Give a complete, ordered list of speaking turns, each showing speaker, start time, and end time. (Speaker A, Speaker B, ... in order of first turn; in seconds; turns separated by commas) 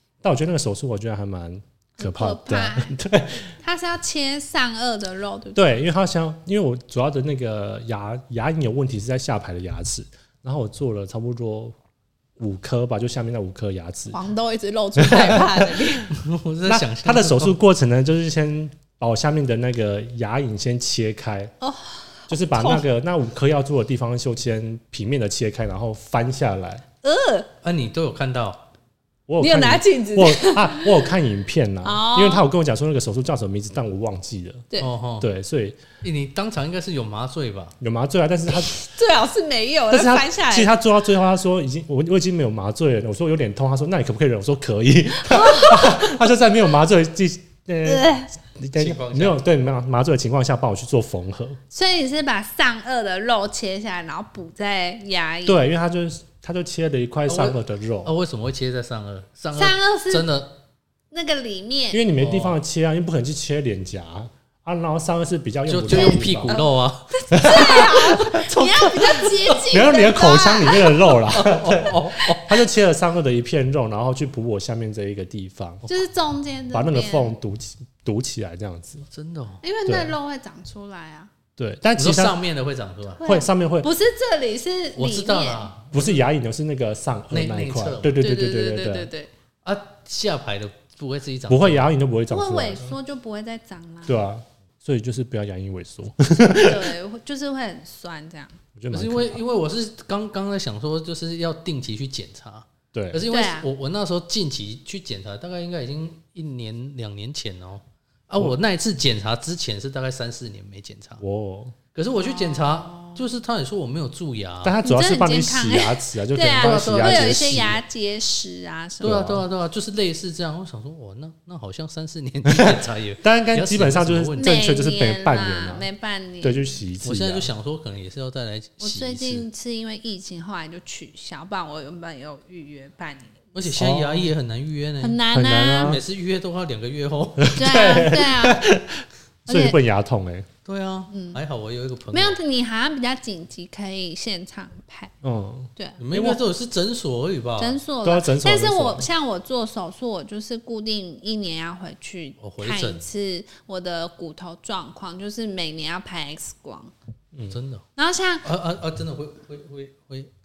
Speaker A: 0.2-3.5, Speaker B: 2.0-3.0, Speaker B: 3.5-5.7, Speaker A: 5.5-11.8, Speaker A: 12.4-14.2, Speaker B: 14.1-16.1, Speaker A: 15.0-15.8, Speaker C: 16.1-17.6, Speaker A: 16.6-21.5, Speaker B: 21.6-22.9, Speaker A: 22.3-26.8, Speaker B: 27.0-27.5, Speaker C: 27.6-28.6, Speaker A: 29.3-34.6, Speaker B: 29.4-31.1, Speaker B: 31.8-32.5, Speaker C: 34.8-35.3, Speaker A: 35.2-35.8, Speaker C: 36.0-37.8, Speaker A: 37.8-38.8, Speaker B: 38.5-40.7, Speaker A: 39.9-48.1, Speaker B: 45.2-46.1, Speaker B: 47.8-48.3, Speaker A: 48.6-51.6, Speaker C: 48.7-49.4, Speaker B: 51.7-55.6, Speaker A: 55.4-58.1, Speaker C: 57.3-60.6, Speaker B: 59.5-60.3, Speaker B: 61.1-62.0, Speaker A: 61.9-66.6, Speaker C: 62.2-62.6, Speaker C: 65.7-67.1, Speaker B: 65.9-71.2, Speaker A: 67.3-68.9, Speaker C: 68.9-69.6, Speaker A: 69.6-75.8, Speaker C: 71.3-72.5, Speaker B: 72.1-72.4, Speaker B: 75.9-77.4, Speaker A: 76.7-79.1, Speaker C: 79.1-79.6, Speaker B: 79.6-81.3, Speaker A: 79.9-80.1, Speaker A: 81.6-82.4, Speaker C: 82.0-83.2, Speaker B: 83.2-85.7, Speaker A: 83.2-83.9, Speaker C: 85.0-86.3, Speaker A: 85.9-89.1, Speaker C: 87.3-88.2, Speaker B: 88.2-89.3, Speaker C: 89.6-91.9, Speaker A: 91.5-93.0, Speaker B: 92.3-94.2, Speaker A: 94.1-96.9, Speaker B: 96.5-98.6, Speaker A: 98.8-99.4, Speaker C: 98.9-111.2, Speaker A: 102.9-103.3, Speaker B: 103.3-103.7, Speaker A: 111.2-111.8, Speaker C: 111.9-114.8, Speaker B: 112.2-113.3, Speaker A: 114.6-117.8, Speaker B: 114.8-119.4, Speaker C: 116.5-117.8, Speaker C: 119.0-124.6, Speaker A: 119.0-119.4, Speaker A: 122.5-125.9, Speaker B: 124.4-126.8, Speaker A: 126.4-127.5, Speaker C: 127.0-129.4, Speaker B: 128.8-133.4, Speaker C: 133.5-135.2, Speaker A: 133.6-134.3, Speaker B: 135.0-136.0, Speaker A: 135.3-136.0, Speaker C: 135.8-137.6, Speaker A: 137.4-140.5, Speaker B: 137.5-138.7, Speaker B: 139.5-139.8, Speaker C: 140.7-142.4, Speaker B: 141.1-141.4, Speaker B: 142.1-145.1, Speaker A: 145.2-146.4, Speaker B: 145.8-146.0, Speaker C: 146.0-147.8, Speaker B: 147.6-156.9, Speaker A: 148.0-149.1, Speaker C: 152.4-153.0, Speaker A: 157.3-157.6, Speaker C: 157.5-157.8, Speaker B: 157.9-158.5, Speaker C: 158.4-160.3